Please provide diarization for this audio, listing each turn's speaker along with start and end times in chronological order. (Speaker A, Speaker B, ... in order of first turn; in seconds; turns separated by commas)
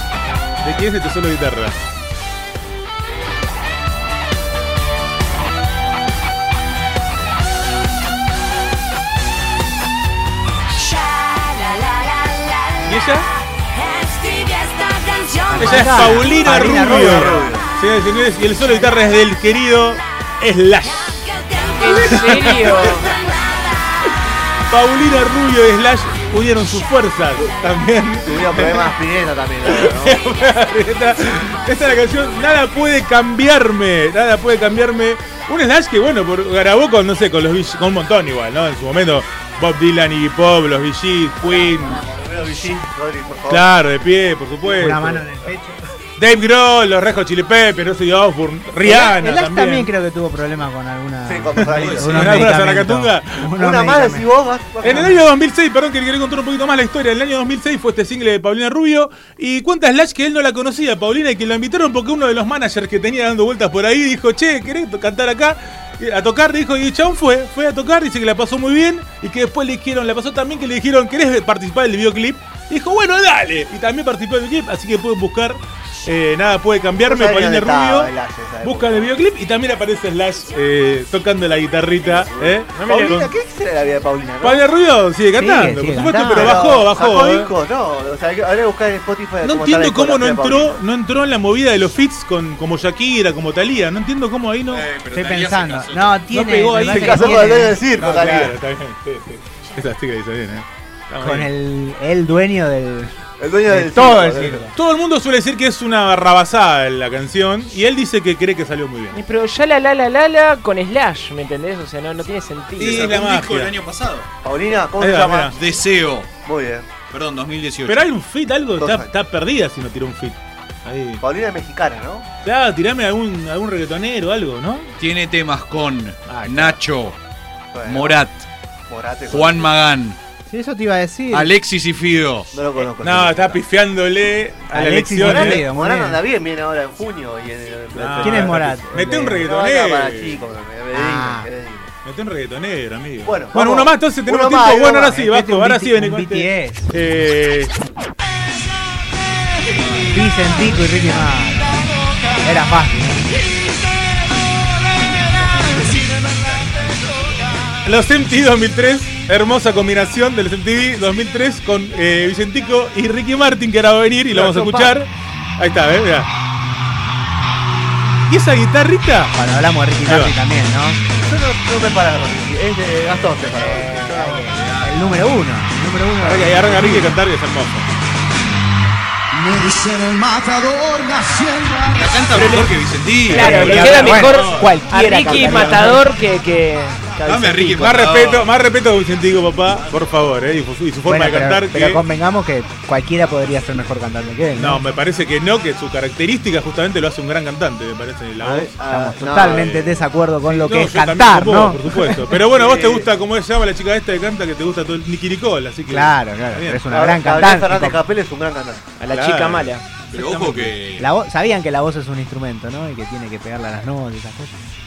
Speaker A: 0.6-1.8, Speaker A: 12.8-13.3, Speaker B: 15.5-17.5, Speaker A: 15.6-23.1, Speaker C: 15.8-16.1, Speaker D: 16.6-17.7, Speaker C: 21.7-23.1, Speaker D: 22.6-23.0, Speaker A: 24.7-28.9, Speaker D: 28.2-30.2, Speaker A: 29.7-42.0, Speaker D: 41.4-43.7, Speaker A: 43.5-45.3, Speaker B: 44.6-45.8, Speaker A: 46.2-49.9, Speaker B: 48.8-54.3, Speaker D: 51.2-52.3, Speaker A: 51.5-53.5, Speaker E: 51.8-52.5, Speaker D: 53.6-55.2, Speaker A: 54.8-78.1, Speaker D: 77.0-79.1, Speaker A: 78.6-83.3, Speaker D: 82.2-84.7, Speaker A: 84.4-87.5, Speaker B: 85.4-86.7, Speaker D: 86.3-90.8, Speaker A: 89.4-94.9, Speaker E: 94.7-96.2, Speaker B: 95.1-97.8, Speaker A: 96.3-101.5, Speaker D: 96.9-98.6, Speaker B: 101.2-103.2, Speaker D: 103.4-104.7, Speaker B: 103.7-104.8, Speaker A: 104.8-109.2, Speaker C: 109.1-113.2, Speaker E: 112.8-114.3, Speaker A: 112.8-113.7, Speaker D: 114.4-115.6, Speaker A: 115.0-115.5, Speaker E: 115.5-116.3, Speaker D: 116.4-116.9, Speaker E: 117.1-118.0, Speaker A: 117.9-121.2, Speaker D: 118.8-119.1, Speaker D: 121.2-122.3, Speaker A: 122.4-124.9, Speaker E: 125.0-127.2, Speaker B: 126.3-126.8, Speaker D: 127.7-128.2, Speaker E: 127.8-128.5, Speaker D: 128.9-129.8, Speaker E: 129.3-130.2, Speaker B: 130.5-131.5, Speaker E: 131.3-132.6, Speaker D: 132.5-133.6, Speaker A: 133.0-135.7, Speaker B: 134.7-136.2, Speaker D: 135.2-138.7, Speaker A: 137.9-140.4, Speaker B: 138.2-139.5, Speaker D: 139.4-141.9, Speaker B: 140.9-141.5, Speaker A: 142.1-147.7, Speaker D: 143.2-145.2, Speaker B: 145.0-146.9, Speaker E: 149.8-150.2, Speaker B: 150.1-151.8, Speaker B: 152.4-153.2, Speaker E: 156.7-157.5, Speaker A: 157.8-166.3, Speaker D: 164.3-164.9, Speaker A: 168.3-169.4, Speaker B: 169.3-171.0, Speaker A: 170.1-170.3, Speaker D: 171.2-174.5, Speaker B: 173.5-177.2, Speaker E: 174.5-175.1, Speaker A: 176.2-177.9, Speaker E: 181.8-184.7, Speaker C: 182.3-182.8, Speaker A: 182.3-182.7, Speaker A: 183.3-184.5, Speaker C: 183.3-187.1, Speaker B: 183.3-186.1, Speaker D: 185.2-185.5, Speaker E: 185.4-185.9, Speaker B: 187.2-187.9, Speaker E: 187.2-188.5, Speaker A: 187.8-192.0, Speaker B: 191.0-194.8, Speaker A: 194.5-206.8, Speaker D: 198.4-199.8, Speaker B: 198.9-202.4, Speaker D: 202.5-203.1, Speaker B: 205.9-208.0, Speaker D: 206.9-208.8, Speaker C: 209.0-209.8, Speaker A: 209.1-210.7, Speaker E: 210.1-211.1, Speaker B: 211.0-214.6